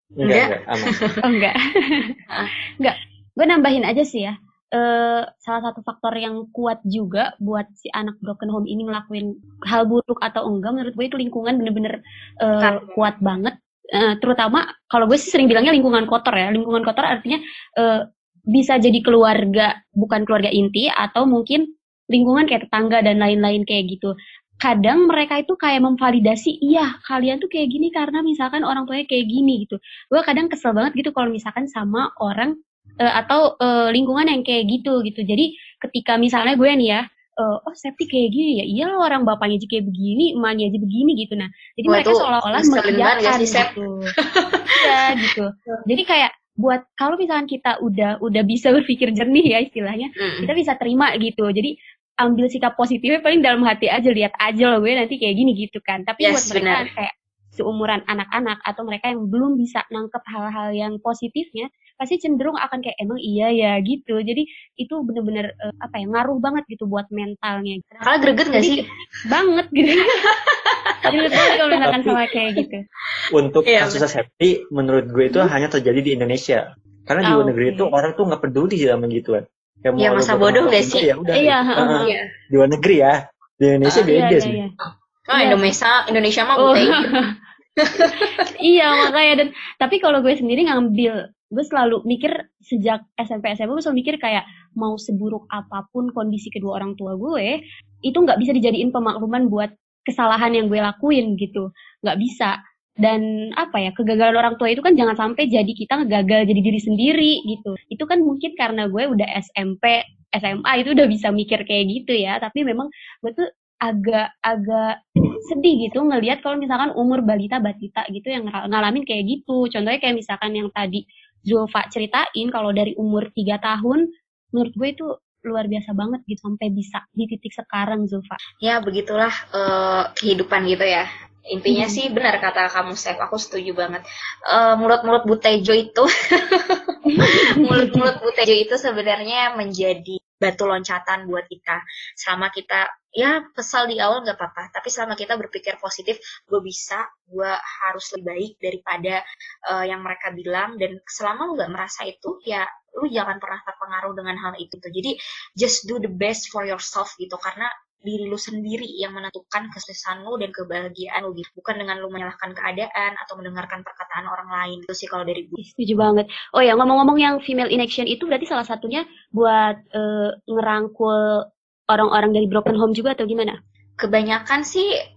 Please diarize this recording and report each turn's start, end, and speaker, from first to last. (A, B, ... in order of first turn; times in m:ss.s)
0:00.2-0:00.9 A
0:00.2-0:01.2 B
0:01.2-0:02.1 C
0:02.8-0:18.0 C
0:12.6-0:13.1 B
0:18.5-0:32.5 C
0:33.1-0:44.1 C
0:41.9-0:43.7 B
0:44.3-0:45.8 B
0:44.8-0:51.7 C
0:50.2-0:50.5 B
0:52.2-1:07.9 C
0:56.2-0:56.9 B
1:08.0-1:08.8 B
1:08.5-1:10.2 C
1:10.2-1:11.5 B
1:11.0-1:12.2 A
1:11.1-1:12.8 C
1:13.3-1:24.6 A
1:13.6-1:14.0 B
1:17.2-1:17.9 C
1:20.0-1:21.1 B
1:21.3-1:22.1 C
1:24.1-1:24.7 C
1:25.3-1:27.1 B
1:25.3-1:25.6 C
1:26.6-1:27.3 C
1:27.8-1:28.4 B
1:27.9-1:37.6 C
1:38.1-1:42.5 C
1:43.0-2:04.0 C
2:04.5-2:08.4 C
2:08.6-2:45.6 B
2:11.7-2:12.0 C
2:17.1-2:18.1 C
2:45.6-2:51.2 C
2:51.9-2:53.6 C
2:54.0-2:54.9 B